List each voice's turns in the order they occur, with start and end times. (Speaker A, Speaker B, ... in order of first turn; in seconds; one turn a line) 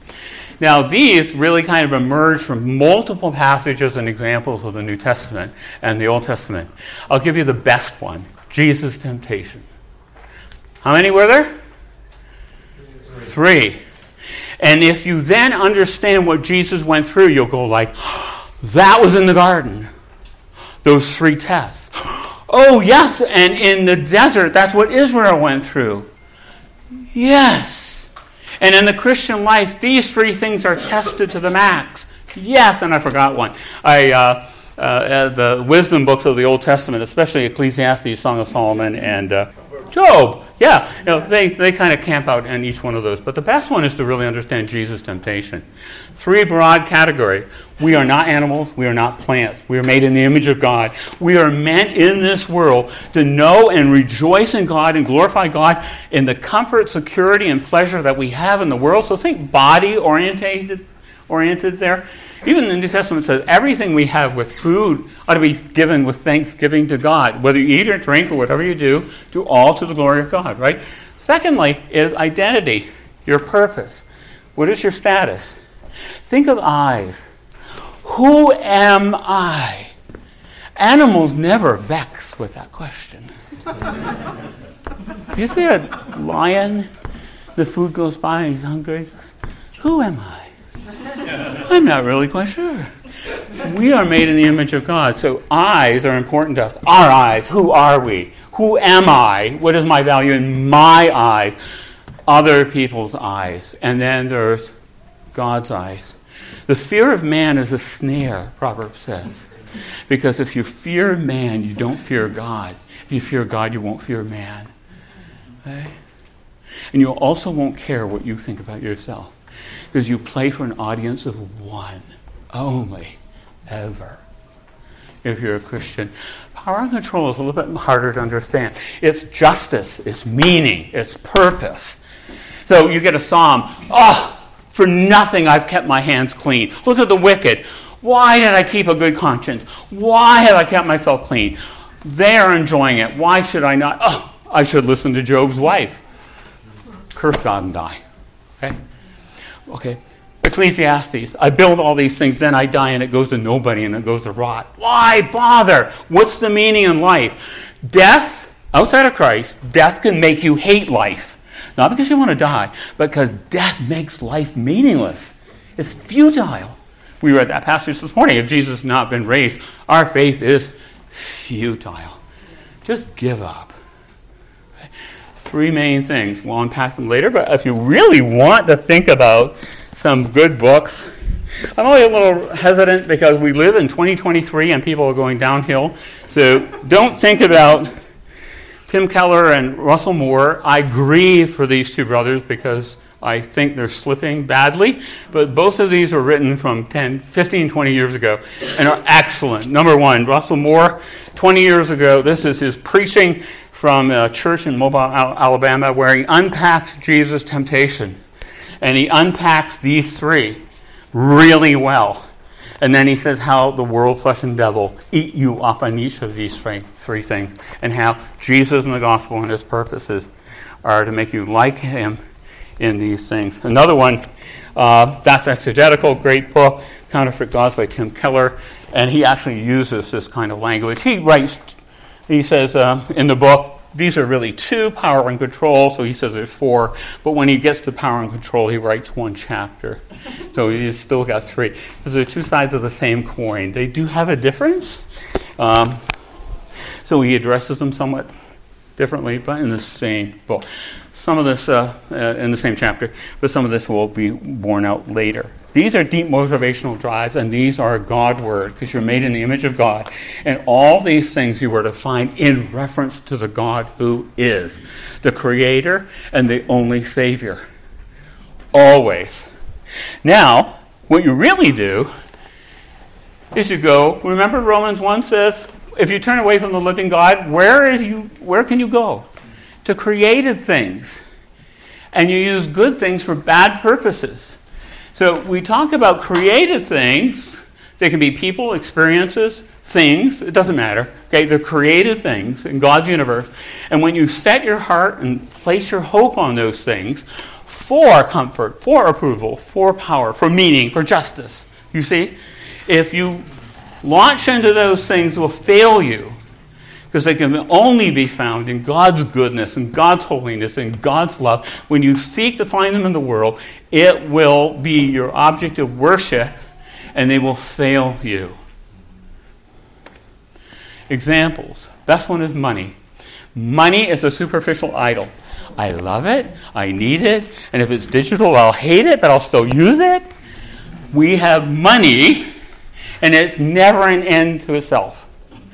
Speaker A: 0.6-9.6
Speaker A: 10.8-11.5
Speaker A: 13.1-13.8
Speaker A: 14.6-19.9
Speaker A: 20.8-26.1
Speaker A: 27.1-28.1
Speaker A: 28.6-74.0
Speaker A: 74.5-75.6
Speaker A: 76.2-77.3
Speaker A: 78.0-79.9
Speaker A: 80.8-83.3
Speaker A: 85.3-86.9
Speaker A: 87.5-90.5
Speaker A: 91.5-92.9
Speaker A: 93.6-101.6
Speaker A: 102.3-104.7
Speaker A: 105.3-106.2
Speaker A: 106.7-109.4
Speaker A: 110.1-114.7
Speaker A: 115.6-115.9
Speaker A: 116.9-119.3
Speaker A: 119.9-124.2
Speaker A: 125.2-132.0
Speaker A: 132.7-146.0
Speaker A: 147.1-148.0
Speaker A: 149.7-172.2
Speaker A: 172.8-173.7
Speaker A: 175.3-181.1
Speaker A: 181.7-187.9
Speaker A: 188.9-208.2
Speaker A: 208.8-210.6
Speaker A: 211.1-212.2
Speaker A: 212.8-220.3
Speaker A: 220.8-222.2
Speaker A: 222.8-224.2
Speaker A: 224.8-231.8
Speaker A: 232.3-240.0
Speaker A: 240.5-245.0
Speaker A: 245.6-246.0
Speaker A: 247.0-248.3
Speaker A: 249.0-267.6
Speaker A: 268.7-269.5
Speaker A: 270.2-272.1
Speaker A: 273.5-279.2
Speaker A: 279.8-281.2
Speaker A: 282.1-284.6
Speaker A: 285.1-302.3
Speaker A: 302.9-303.4
Speaker A: 304.0-306.4
Speaker A: 307.1-316.5
Speaker A: 317.1-318.6
Speaker A: 321.1-322.9
Speaker A: 323.5-330.3
Speaker A: 331.1-332.5
Speaker A: 333.2-335.3